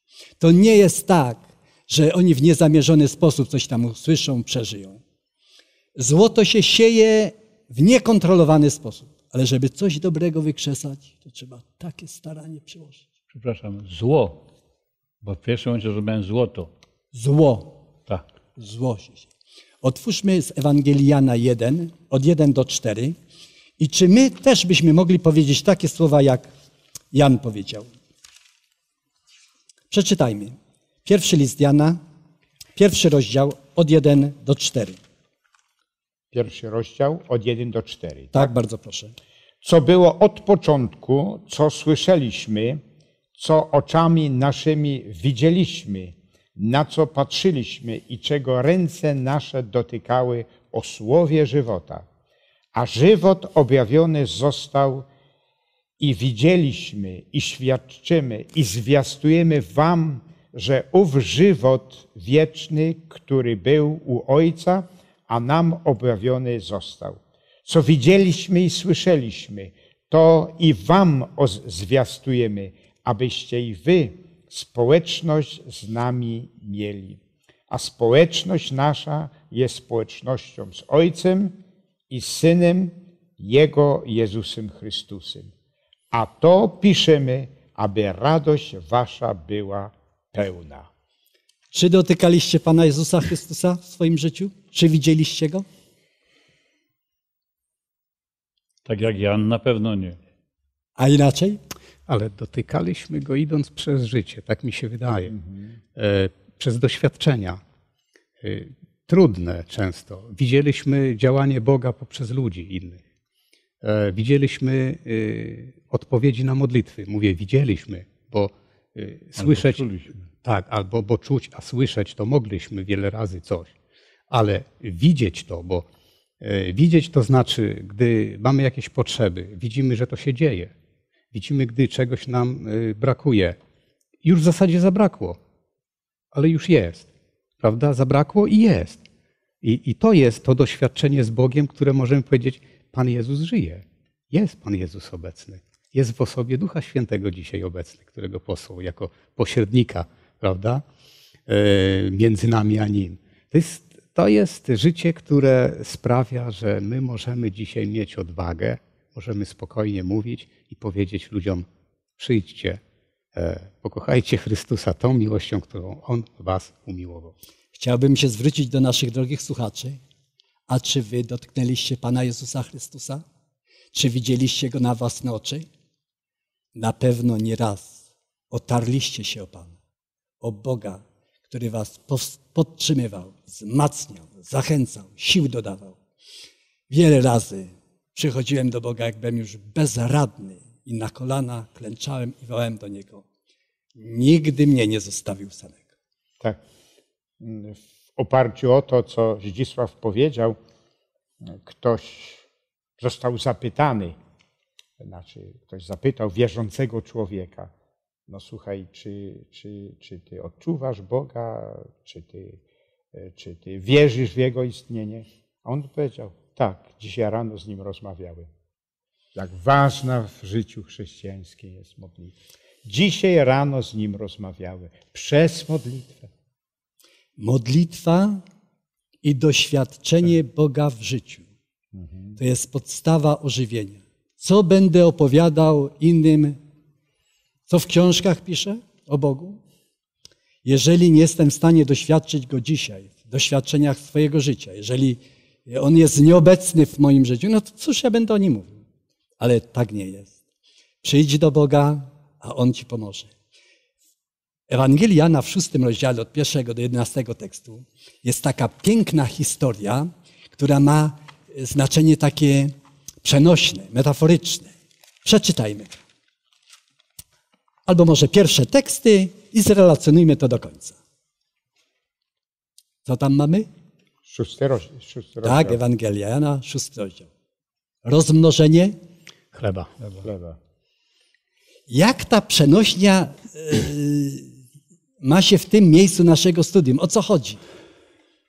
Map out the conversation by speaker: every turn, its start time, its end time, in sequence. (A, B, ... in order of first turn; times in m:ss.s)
0:00.4-0:05.0 A
0:06.0-0:13.0 A
0:13.3-0:14.4 B
0:15.2-0:16.7 B
0:17.1-0:17.8 A
0:18.6-0:19.3 A
0:19.8-0:23.2 A
0:23.8-0:26.5 A
0:27.1-0:27.9 A
0:29.9-0:32.0 A
0:32.8-0:35.0 A
0:36.3-0:38.5 C
0:38.3-0:39.1 A
0:39.6-0:42.8 C
0:43.4-0:52.0 C
0:52.7-0:55.1 C
0:56.0-1:25.5 C
1:26.1-1:30.9 C
1:31.7-1:35.6 A
1:38.8-1:40.2 B
1:41.0-1:41.6 A
1:42.1-1:45.3 D
1:45.3-1:45.6 C
1:45.9-1:47.6 D
1:48.4-1:53.0 D
1:53.8-2:03.7 D
1:59.4-2:00.1 B
2:04.3-2:05.9 D
2:06.4-2:10.7 D
2:11.3-2:13.6 D
2:14.2-2:15.4 D
2:16.3-2:17.1 D
2:17.6-2:19.0 D
2:19.6-2:30.8 D
2:31.5-2:41.6 D
2:42.2-2:42.8 D
2:43.3-2:47.3 D
2:47.7-2:50.0 A
2:50.7-2:53.2 A
2:53.9-2:55.7 A
2:56.7-2:59.8 A
3:00.4-3:06.0 A
3:06.9-3:13.2 A
3:14.0-3:15.8 A
3:17.4-3:20.6 C
3:21.4-3:22.4 C
3:23.0-3:24.1 C
3:25.0-3:27.7 C
3:28.3-3:32.6 C
3:33.1-3:38.5 C
3:39.3-3:46.3 C
3:47.4-3:48.4 A
3:49.2-3:51.5 A
3:51.9-3:52.4 C
3:52.4-3:56.6 A
3:57.7-3:59.6 A
4:00.6-4:08.8 A
4:09.4-4:10.4 A
4:11.0-4:13.3 A
4:14.7-4:24.7 A
4:25.2-4:26.0 A
4:27.9-4:31.0 A
4:33.0-4:33.7 A
4:34.2-4:35.8 C
4:35.4-4:37.3 A
4:38.0-4:39.0 A
4:39.5-4:39.9 D
4:40.2-4:40.6 C
4:41.9-4:44.5 A
4:45.2-4:47.6 A